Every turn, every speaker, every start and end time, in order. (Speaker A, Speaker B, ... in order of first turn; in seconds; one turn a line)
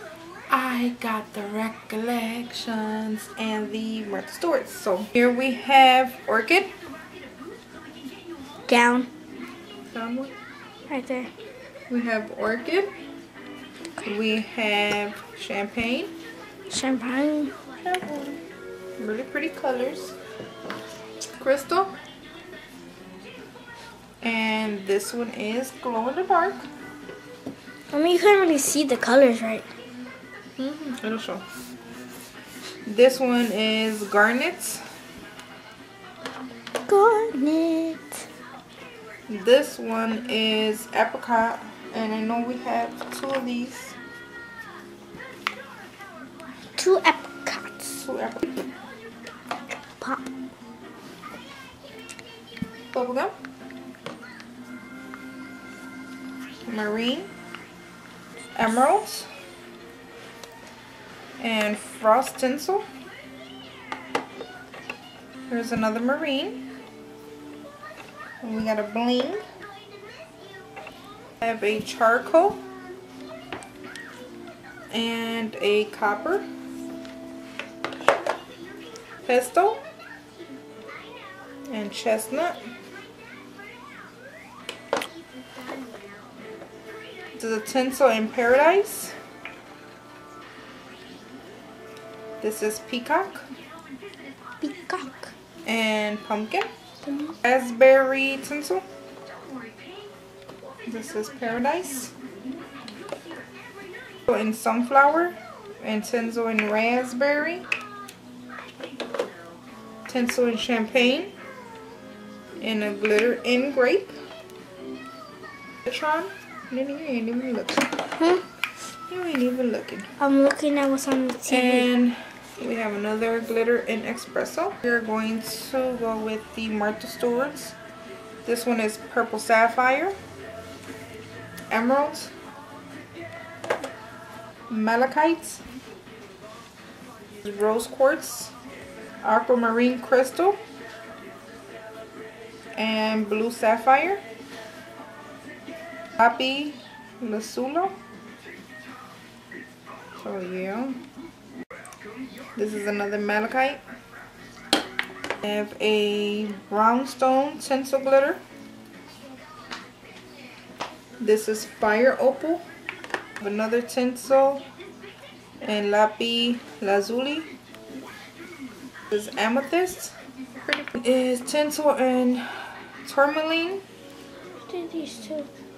Speaker A: 0.5-6.7
Speaker B: 8.7-9.1
Speaker A: 9.9-10.3
Speaker B: 10.9-11.3
Speaker A: 11.9-12.9
Speaker A: 14.0-16.1
Speaker B: 16.7-17.5
Speaker A: 17.8-18.4
Speaker A: 19.0-20.2
Speaker A: 21.4-21.9
Speaker A: 24.2-26.6
Speaker B: 27.9-29.7
Speaker A: 30.6-31.4
Speaker A: 32.9-34.9
Speaker B: 36.9-38.2
Speaker A: 39.3-44.0
Speaker B: 46.8-48.0
Speaker A: 47.9-48.6
Speaker A: 52.9-53.3
Speaker A: 56.7-57.3
Speaker A: 58.6-59.3
Speaker A: 61.4-62.9
Speaker A: 65.5-66.6
Speaker A: 68.4-69.4
Speaker A: 71.4-72.6
Speaker A: 74.9-76.5
Speaker A: 79.2-79.8
Speaker A: 81.7-82.6
Speaker A: 87.4-89.2
Speaker A: 92.4-93.5
Speaker B: 94.6-95.3
Speaker A: 95.7-96.7
Speaker B: 97.0-97.4
Speaker A: 97.4-98.8
Speaker A: 100.9-102.1
Speaker A: 104.3-107.7
Speaker A: 110.1-111.3
Speaker A: 112.6-114.2
Speaker A: 115.9-118.0
Speaker B: 118.1-118.4
Speaker A: 119.1-120.1
Speaker B: 120.2-121.9
Speaker A: 121.5-127.8
Speaker A: 128.4-130.2
Speaker A: 131.7-132.3
Speaker A: 134.7-135.6
Speaker A: 137.4-138.5
Speaker A: 139.2-140.6
Speaker A: 142.8-144.2
Speaker A: 146.2-147.9
Speaker A: 150.2-151.0
Speaker A: 152.6-153.8
Speaker A: 155.4-158.4
Speaker A: 161.2-162.6
Speaker A: 163.4-164.7
Speaker A: 165.6-167.5
Speaker A: 169.1-172.5
Speaker A: 173.1-173.8
Speaker B: 174.7-175.5